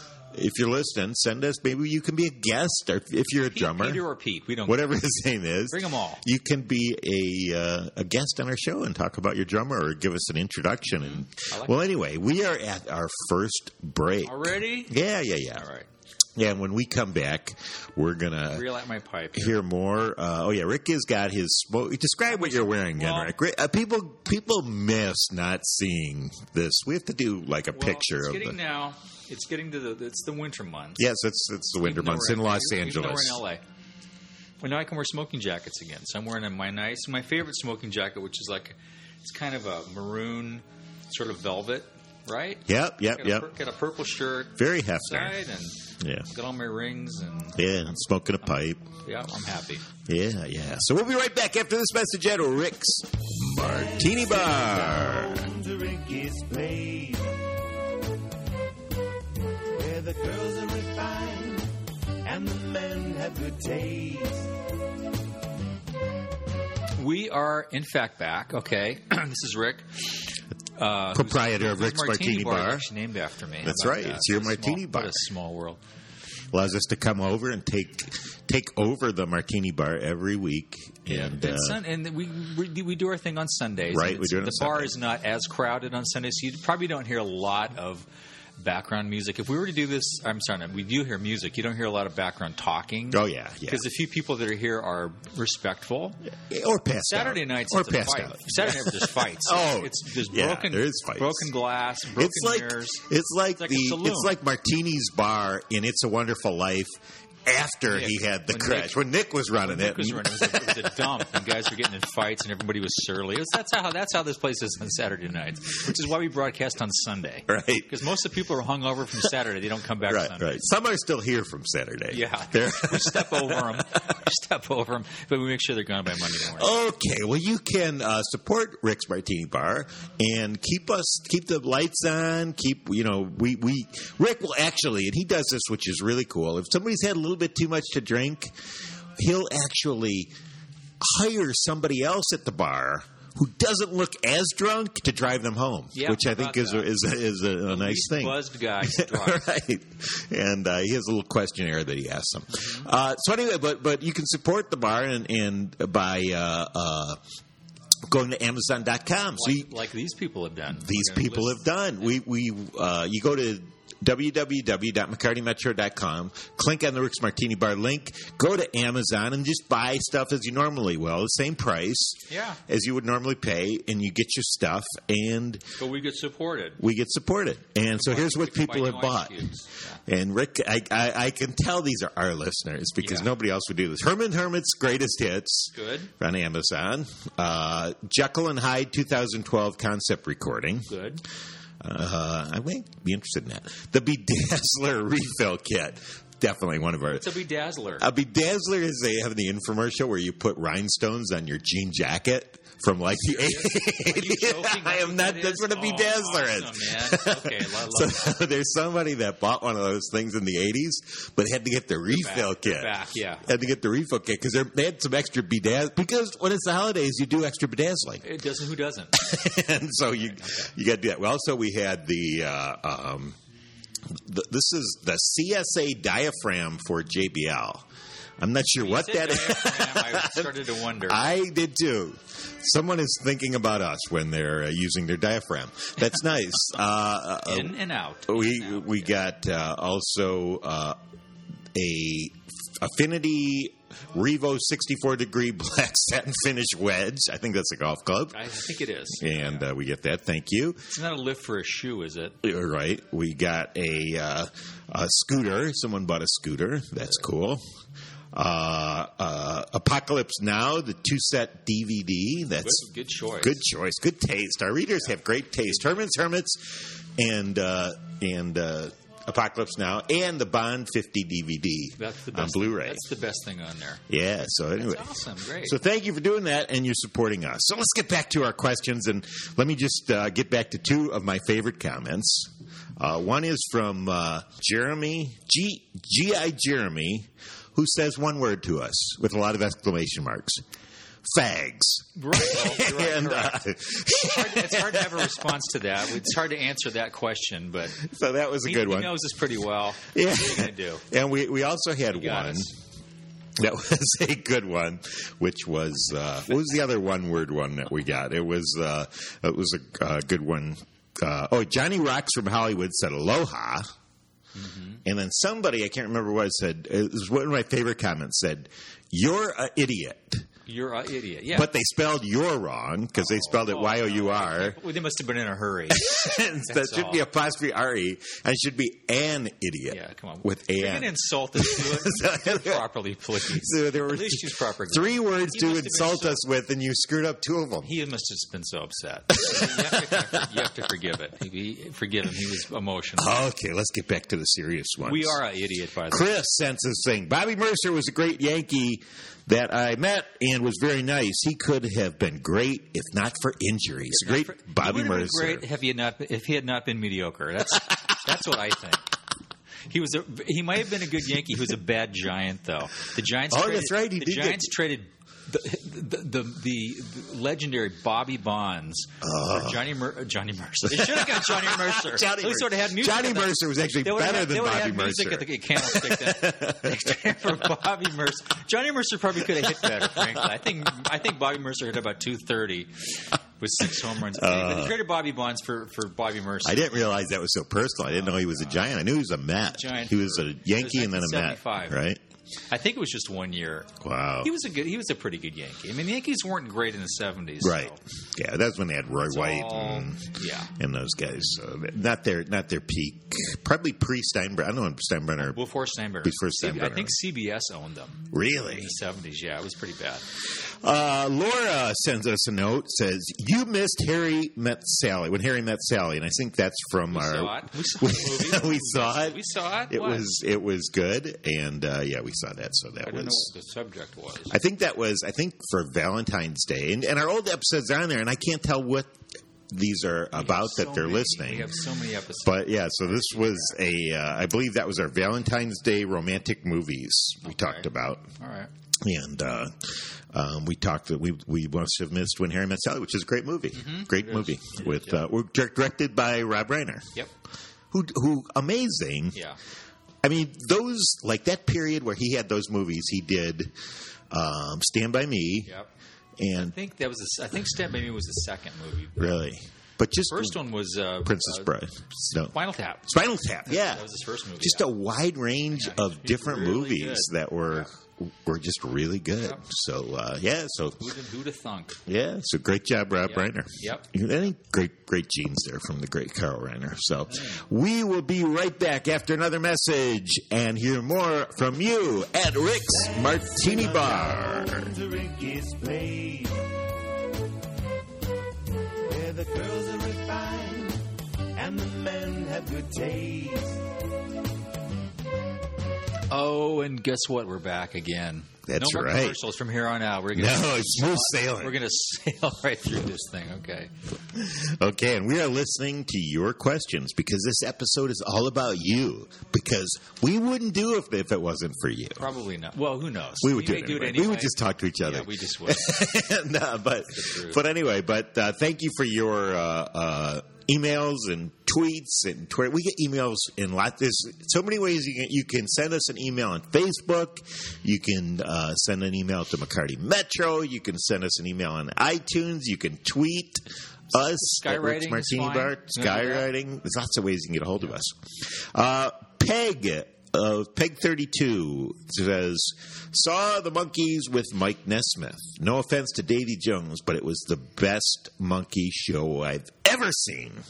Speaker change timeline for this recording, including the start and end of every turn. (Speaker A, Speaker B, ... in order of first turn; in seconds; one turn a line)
Speaker A: 0.3-4.0
Speaker B: 3.5-4.9
Speaker A: 4.6-15.7
Speaker B: 5.7-6.2
Speaker B: 11.0-11.8
Speaker B: 14.2-14.9
Speaker B: 15.5-15.9
Speaker A: 16.4-18.6
Speaker B: 18.5-19.6
Speaker A: 19.3-28.6
Speaker B: 22.2-23.3
Speaker B: 27.7-31.0
Speaker A: 31.0-33.4
Speaker B: 31.8-33.6
Speaker B: 34.6-47.6
Speaker A: 42.7-43.5
Speaker A: 44.5-45.4
Speaker A: 46.0-46.3
Speaker A: 47.5-48.8
Speaker B: 49.0-49.9
Speaker A: 50.1-55.5
Speaker C: 55.1-57.4
Speaker C: 59.7-64.5
Speaker B: 67.0-70.2
Speaker B: 70.8-75.8
Speaker A: 71.1-72.8
Speaker A: 73.6-75.2
Speaker A: 76.5-81.8
Speaker B: 81.0-88.1
Speaker A: 83.9-85.0
Speaker B: 88.6-96.2
Speaker A: 93.1-93.8
Speaker A: 96.4-101.5
Speaker B: 97.0-103.0
Speaker A: 102.1-106.9
Speaker B: 103.6-104.4
Speaker A: 107.4-111.1
Speaker B: 107.9-109.0
Speaker B: 109.6-120.6
Speaker A: 117.5-117.9
Speaker A: 120.1-123.9
Speaker B: 122.1-126.7
Speaker A: 126.4-138.5
Speaker A: 139.2-140.3
Speaker A: 141.0-157.2
Speaker B: 145.9-146.9
Speaker B: 147.7-149.4
Speaker B: 152.5-152.9
Speaker A: 158.1-159.7
Speaker B: 159.3-161.6
Speaker A: 160.7-175.6
Speaker B: 172.3-172.6
Speaker B: 175.8-176.8
Speaker A: 176.8-179.5
Speaker B: 177.9-180.0
Speaker A: 180.1-190.9
Speaker B: 183.0-183.3
Speaker B: 185.7-186.1
Speaker B: 190.9-191.2
Speaker A: 191.8-197.3
Speaker B: 197.1-198.1
Speaker A: 198.0-218.2
Speaker B: 203.2-208.4
Speaker B: 212.1-213.5
Speaker B: 218.2-219.2
Speaker A: 219.1-223.3
Speaker B: 220.3-220.7
Speaker A: 224.1-227.8
Speaker A: 228.4-241.0
Speaker B: 228.8-231.4
Speaker B: 237.4-239.1
Speaker A: 241.7-248.5
Speaker B: 248.3-249.7
Speaker A: 249.1-250.9
Speaker B: 250.9-252.4
Speaker A: 252.4-257.6
Speaker A: 258.3-262.8
Speaker B: 262.6-263.6
Speaker A: 263.4-273.0
Speaker B: 272.0-274.0
Speaker A: 274.1-275.1
Speaker B: 274.8-275.8
Speaker A: 275.6-290.6
Speaker A: 291.3-295.5
Speaker B: 292.1-293.6
Speaker B: 294.2-298.0
Speaker A: 297.9-299.1
Speaker B: 298.6-301.0
Speaker A: 300.1-302.7
Speaker B: 302.1-302.7
Speaker A: 303.6-313.8
Speaker B: 314.5-315.0
Speaker A: 315.0-320.4
Speaker B: 320.6-321.7
Speaker A: 321.5-324.8
Speaker B: 323.2-326.1
Speaker A: 325.9-332.8
Speaker B: 326.6-327.2
Speaker B: 329.9-336.4
Speaker A: 333.4-337.9
Speaker B: 337.8-343.5
Speaker A: 339.4-340.4
Speaker A: 343.2-345.4
Speaker B: 345.0-346.3
Speaker A: 346.1-355.6
Speaker B: 354.1-359.1
Speaker B: 359.9-387.1
Speaker A: 363.5-364.7
Speaker A: 369.2-369.9
Speaker A: 370.8-377.3
Speaker A: 384.3-385.0
Speaker A: 386.6-392.2
Speaker B: 388.1-388.9
Speaker B: 389.6-392.0
Speaker B: 392.7-398.0
Speaker A: 394.0-394.5
Speaker A: 397.6-405.6
Speaker B: 399.3-400.7
Speaker B: 405.4-410.2
Speaker A: 406.2-407.1
Speaker A: 408.3-408.9
Speaker A: 410.8-423.5
Speaker B: 417.1-420.3
Speaker B: 423.1-424.6
Speaker A: 424.5-429.2
Speaker A: 429.7-431.7
Speaker B: 430.3-433.7
Speaker A: 432.4-438.3
Speaker B: 437.4-437.9
Speaker B: 438.4-438.7
Speaker A: 439.0-447.1
Speaker B: 443.7-445.2
Speaker A: 447.9-449.4
Speaker B: 449.3-449.6
Speaker A: 450.2-453.7
Speaker A: 454.3-455.7
Speaker A: 456.4-456.7
Speaker B: 456.5-459.4
Speaker A: 459.2-460.6
Speaker B: 460.3-463.1
Speaker A: 461.2-462.5
Speaker A: 463.1-464.0
Speaker B: 463.6-464.9
Speaker A: 464.6-471.1
Speaker B: 465.7-467.9
Speaker B: 471.0-472.0
Speaker A: 472.1-484.9
Speaker B: 473.2-474.1
Speaker B: 477.3-477.6
Speaker C: 483.1-486.6
Speaker C: 489.0-493.8
Speaker B: 496.3-503.9
Speaker A: 498.7-499.4
Speaker A: 500.3-501.8
Speaker A: 504.3-512.2
Speaker B: 512.2-516.0
Speaker A: 513.4-550.6
Speaker B: 517.1-517.6
Speaker B: 534.3-536.5